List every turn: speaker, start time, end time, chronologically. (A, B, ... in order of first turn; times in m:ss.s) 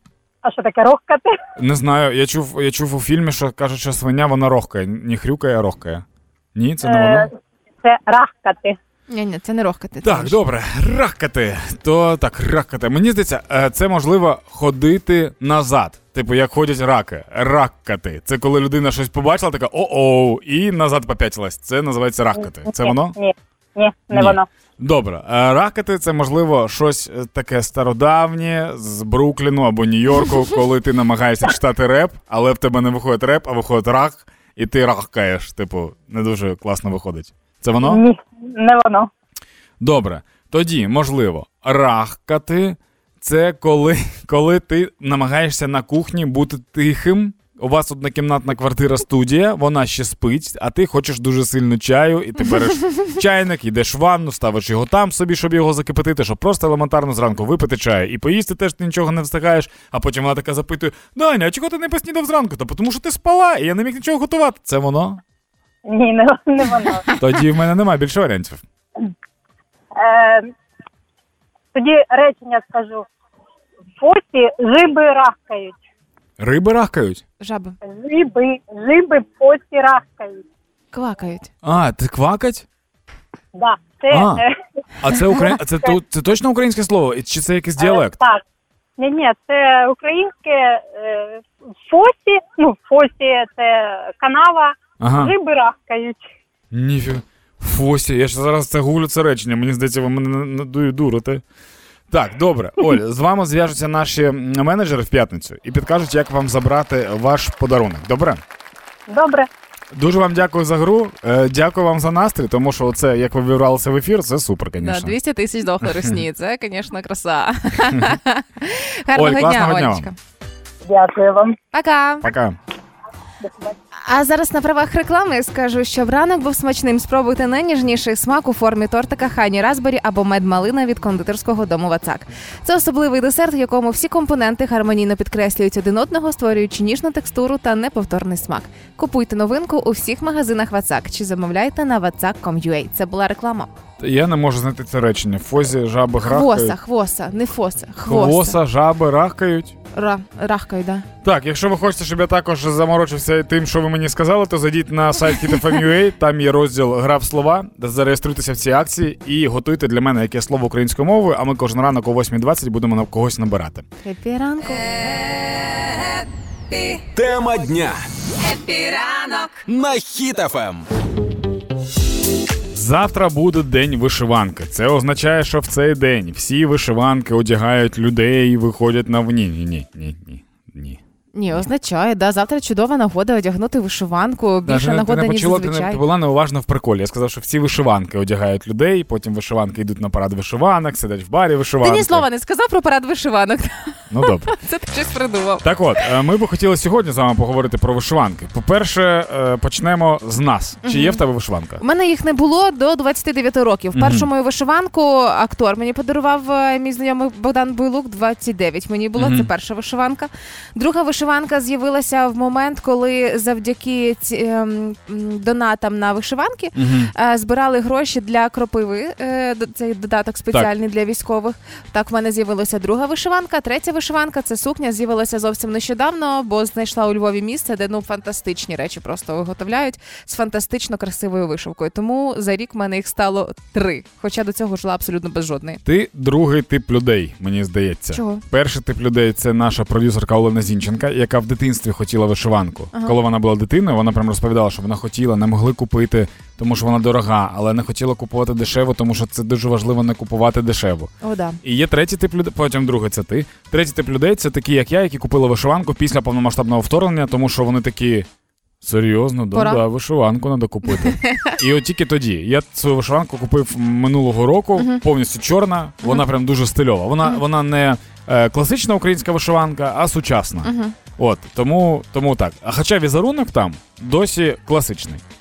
0:00.4-0:01.3 A
0:01.6-0:07.3 B
0:06.8-0:08.8 A
0:09.1-0:10.4 C
0:10.0-0:23.1 B
0:22.7-0:24.5 A
0:24.1-0:38.0 B
0:37.8-0:39.1 A
0:39.8-1:05.2 B
1:05.8-1:07.1 A
1:07.2-1:08.6 B
1:09.9-1:10.5 A
1:11.7-1:13.1 A
1:14.0-1:15.8 A
1:16.4-1:17.2 B
1:17.4-1:17.8 C
1:17.8-1:20.4 A
1:20.9-1:21.5 C
1:21.6-1:22.6 B
1:23.5-1:24.5 A
1:24.1-1:24.4 B
1:25.0-1:28.2 B
1:27.8-1:28.4 A
1:29.0-1:36.2 A
1:35.0-1:35.3 B
1:36.7-1:41.4 B
1:42.1-1:48.4 B
1:49.1-1:49.5 A
1:49.9-1:55.2 B
1:54.8-2:00.2 C
1:55.8-1:56.2 B
1:59.1-2:00.1 B
2:00.8-2:01.6 A
2:01.7-2:02.3 C
2:02.2-2:02.6 B
2:04.0-2:23.7 C
2:24.0-2:26.8 B
2:26.2-2:28.6 C
2:28.0-2:29.7 B
2:29.9-2:31.1 C
2:31.2-2:43.8 B
2:44.0-2:44.9 C
2:44.9-2:47.0 D
2:47.1-2:48.0 E
2:48.4-2:49.6 D
2:49.7-2:50.9 E
2:52.7-3:01.0 B
3:01.3-3:06.0 C
3:04.6-3:12.2 B
3:11.8-3:15.6 C
3:14.1-3:14.5 B
3:15.6-3:21.8 B
3:20.8-3:21.2 C
3:21.8-3:55.8 C
3:23.9-3:24.3 B
3:29.2-3:29.5 B
3:36.7-3:37.1 B
3:55.8-4:11.1 B
3:58.1-3:58.4 C
4:11.2-4:11.6 C
4:11.6-4:18.3 B
4:18.8-4:35.2 B
4:19.5-4:19.8 C
4:20.9-4:21.6 C
4:24.8-4:25.0 C
4:30.6-4:30.9 C